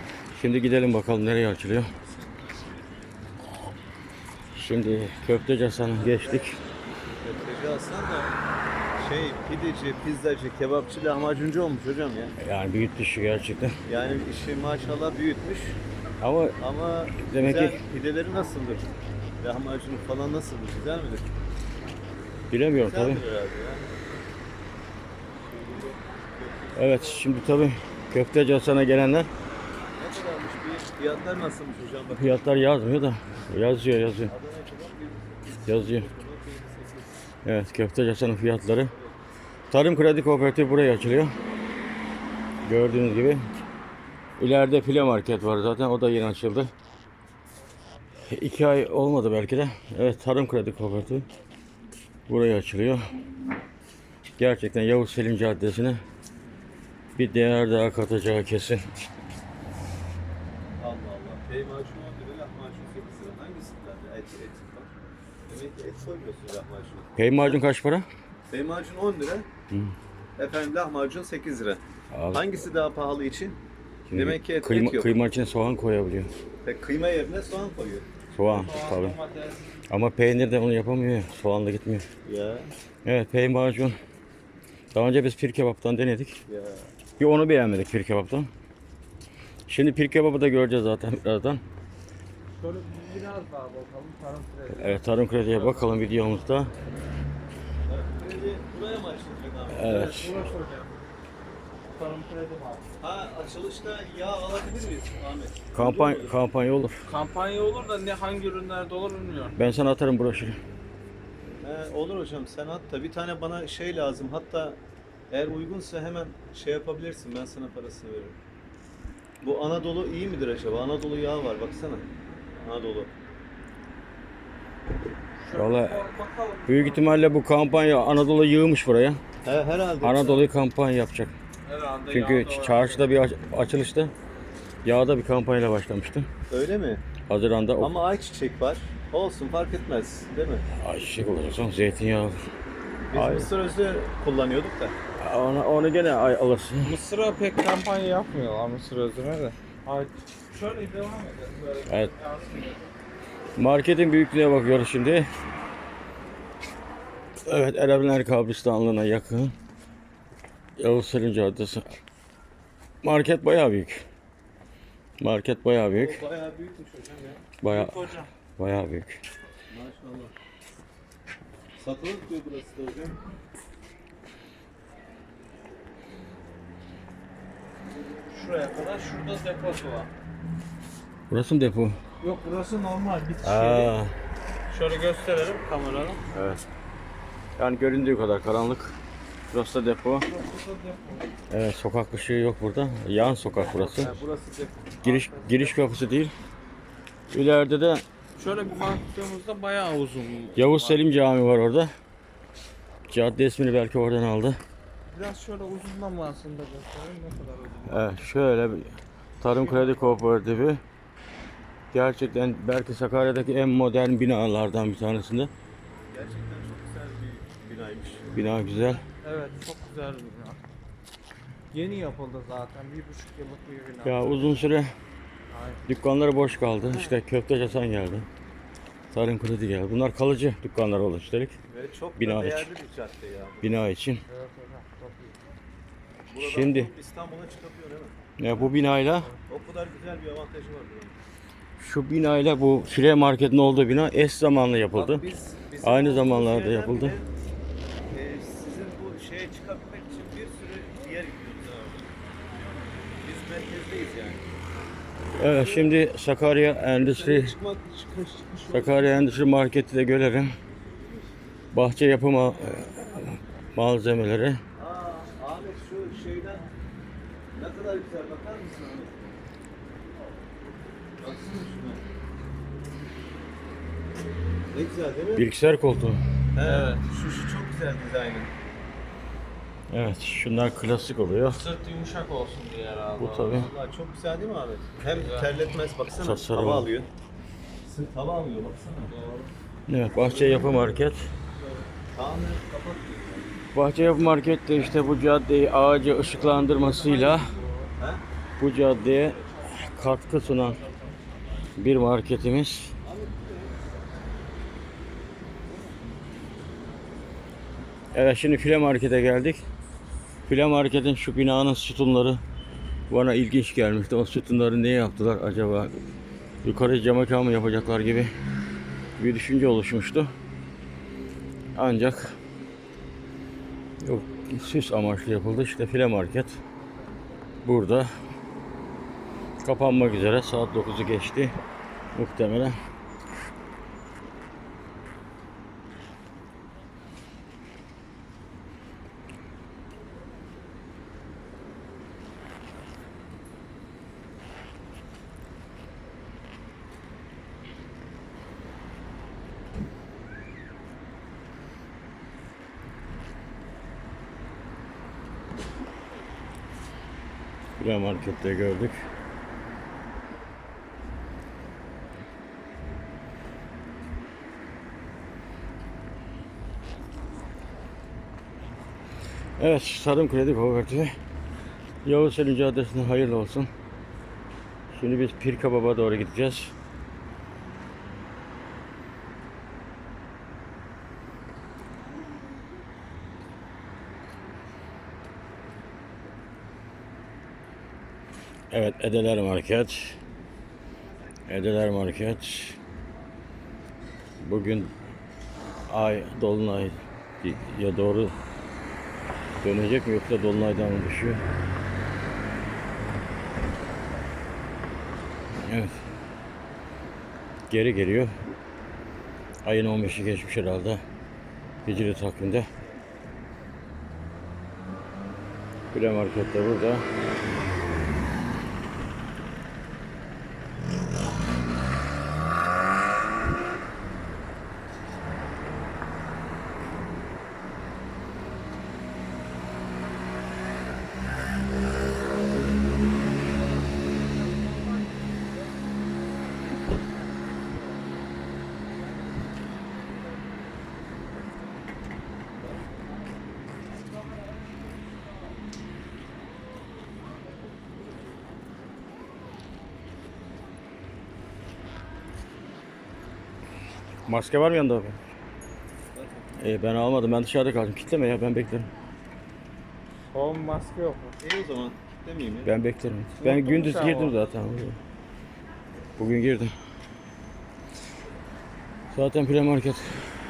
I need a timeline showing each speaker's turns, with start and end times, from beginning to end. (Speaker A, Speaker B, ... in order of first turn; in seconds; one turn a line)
Speaker A: 0.3-1.9
Speaker A: 4.5-6.6
Speaker B: 6.1-6.6
Speaker B: 7.2-8.3
Speaker B: 9.0-12.3
Speaker A: 12.4-13.8
Speaker B: 13.9-15.8
Speaker A: 16.2-16.6
Speaker B: 16.6-18.9
Speaker A: 17.2-17.8
Speaker B: 19.4-21.3
Speaker A: 22.5-23.2
Speaker B: 22.8-23.9
Speaker B: 25.4-27.3
Speaker A: 26.8-29.3
Speaker B: 30.0-32.4
Speaker A: 32.1-34.3
Speaker B: 34.3-37.2
Speaker A: 35.7-36.1
Speaker A: 37.4-38.9
Speaker B: 38.9-39.2
Speaker A: 39.7-41.4
Speaker A: 42.6-43.4
Speaker A: 44.4-46.7
Speaker A: 48.2-51.3
Speaker A: 52.3-53.0
Speaker A: 54.4-56.0
Speaker A: 57.2-58.9
Speaker B: 60.8-64.9
Speaker B: 65.5-67.6
Speaker A: 67.2-68.1
Speaker B: 68.5-69.5
Speaker A: 69.7-70.0
Speaker B: 70.4-71.8
Speaker A: 72.1-72.4
Speaker B: 72.3-73.6
Speaker A: 74.1-76.3
Speaker B: 74.1-75.2
Speaker B: 76.6-78.1
Speaker A: 78.3-79.2
Speaker C: 78.4-79.7
Speaker A: 79.9-82.1
Speaker B: 82.2-82.7
Speaker A: 83.0-84.0
Speaker A: 84.9-86.4
Speaker B: 86.5-86.9
Speaker A: 87.2-88.5
Speaker A: 89.7-91.6
Speaker C: 92.5-95.9
Speaker A: 94.7-96.7
Speaker B: 97.9-100.2
Speaker A: 99.7-100.4
Speaker C: 99.8-101.0
Speaker C: 101.9-102.9
Speaker B: 103.0-106.4
Speaker A: 105.7-107.0
Speaker C: 107.1-109.6
Speaker A: 109.6-110.6
Speaker B: 111.6-114.8
Speaker B: 115.3-118.4
Speaker B: 119.4-123.1
Speaker C: 125.4-127.1
Speaker A: 125.5-126.1
Speaker A: 126.7-129.2
Speaker B: 129.4-130.5
Speaker A: 130.0-131.3
Speaker C: 131.7-133.0
Speaker A: 132.1-134.1
Speaker A: 134.8-136.3
Speaker B: 136.5-137.0
Speaker A: 137.3-137.9
Speaker B: 137.8-140.7
Speaker A: 140.8-142.4
Speaker B: 143.1-145.0
Speaker A: 143.1-143.5
Speaker A: 145.2-147.0
Speaker C: 146.8-152.9
Speaker A: 151.9-152.1
Speaker A: 153.6-155.3
Speaker A: 157.4-159.5
Speaker A: 160.8-161.9
Speaker A: 163.0-164.0
Speaker A: 165.2-166.2
Speaker B: 165.9-167.5
Speaker A: 167.6-169.2
Speaker C: 167.7-168.3
Speaker B: 169.7-170.3
Speaker B: 171.8-173.2
Speaker C: 178.3-180.1
Speaker A: 181.3-182.0
Speaker C: 182.2-183.9
Speaker A: 183.4-184.1
Speaker C: 184.7-186.2
Speaker A: 186.3-186.6
Speaker A: 187.6-189.0
Speaker A: 189.5-190.3
Speaker C: 190.2-191.3
Speaker A: 191.5-194.1
Speaker B: 193.6-195.6
Speaker A: 195.0-196.3
Speaker C: 195.3-195.7
Speaker A: 197.3-198.0
Speaker C: 198.4-201.0
Speaker A: 200.6-201.9
Speaker A: 203.1-204.6
Speaker C: 205.1-208.1
Speaker A: 207.9-210.8
Speaker C: 209.5-210.2
Speaker A: 211.9-215.5
Speaker B: 216.1-218.3
Speaker A: 218.3-219.0
Speaker C: 219.2-220.6
Speaker C: 221.7-224.6
Speaker A: 224.0-224.9
Speaker C: 225.5-225.8
Speaker A: 225.9-228.3
Speaker B: 226.9-227.1
Speaker A: 229.1-231.6
Speaker B: 231.7-233.8
Speaker A: 232.2-232.7
Speaker A: 233.6-234.2
Speaker C: 234.3-235.4
Speaker B: 236.3-238.2
Speaker A: 236.4-236.9
Speaker A: 238.4-239.3
Speaker B: 239.5-241.2
Speaker A: 241.8-245.2
Speaker B: 244.9-247.3
Speaker A: 245.8-247.2
Speaker B: 248.1-252.1
Speaker B: 253.2-254.5
Speaker A: 255.4-257.5
Speaker B: 255.4-256.0
Speaker B: 257.0-259.3
Speaker A: 258.7-260.5
Speaker A: 261.7-264.6
Speaker B: 264.8-266.7
Speaker B: 267.5-269.4
Speaker B: 271.2-272.0
Speaker B: 274.7-275.4
Speaker A: 275.4-276.2
Speaker B: 276.6-278.5
Speaker C: 276.6-277.1
Speaker A: 279.9-281.6
Speaker C: 281.5-283.6
Speaker A: 283.2-283.7
Speaker B: 283.5-287.1
Speaker C: 285.2-285.5
Speaker A: 286.2-286.9
Speaker B: 287.8-289.1
Speaker C: 289.1-289.5
Speaker A: 289.9-291.2
Speaker B: 290.2-290.9
Speaker B: 292.1-293.5
Speaker A: 293.7-297.5
Speaker C: 296.4-297.9
Speaker B: 298.0-298.2
Speaker A: 298.6-300.8
Speaker C: 299.0-300.9
Speaker A: 301.8-302.9
Speaker B: 303.0-303.9
Speaker A: 308.1-309.6
Speaker A: 310.5-312.4
Speaker A: 313.1-315.9
Speaker A: 316.6-318.3
Speaker A: 319.2-320.3
Speaker A: 321.8-322.4
Speaker A: 324.0-326.6
Speaker A: 327.6-328.1
Speaker A: 329.6-331.6
Speaker A: 332.1-332.8
Speaker A: 357.8-359.0
Speaker A: 369.6-371.1
Speaker A: 372.1-373.7
Speaker A: 374.9-376.7
Speaker A: 388.7-390.2
Speaker A: 391.5-392.8
Speaker A: 394.4-394.9
Speaker A: 395.9-398.3
Speaker A: 399.6-401.4
Speaker A: 405.6-405.9
Speaker A: 407.7-408.3
Speaker A: 409.6-411.0
Speaker A: 411.9-412.7
Speaker A: 415.9-417.1
Speaker A: 454.3-455.2
Speaker B: 456.1-456.5
Speaker A: 456.6-458.9
Speaker C: 460.3-461.4
Speaker B: 461.4-462.7
Speaker A: 462.6-465.0
Speaker C: 463.4-464.5
Speaker A: 466.2-466.7
Speaker A: 469.1-470.2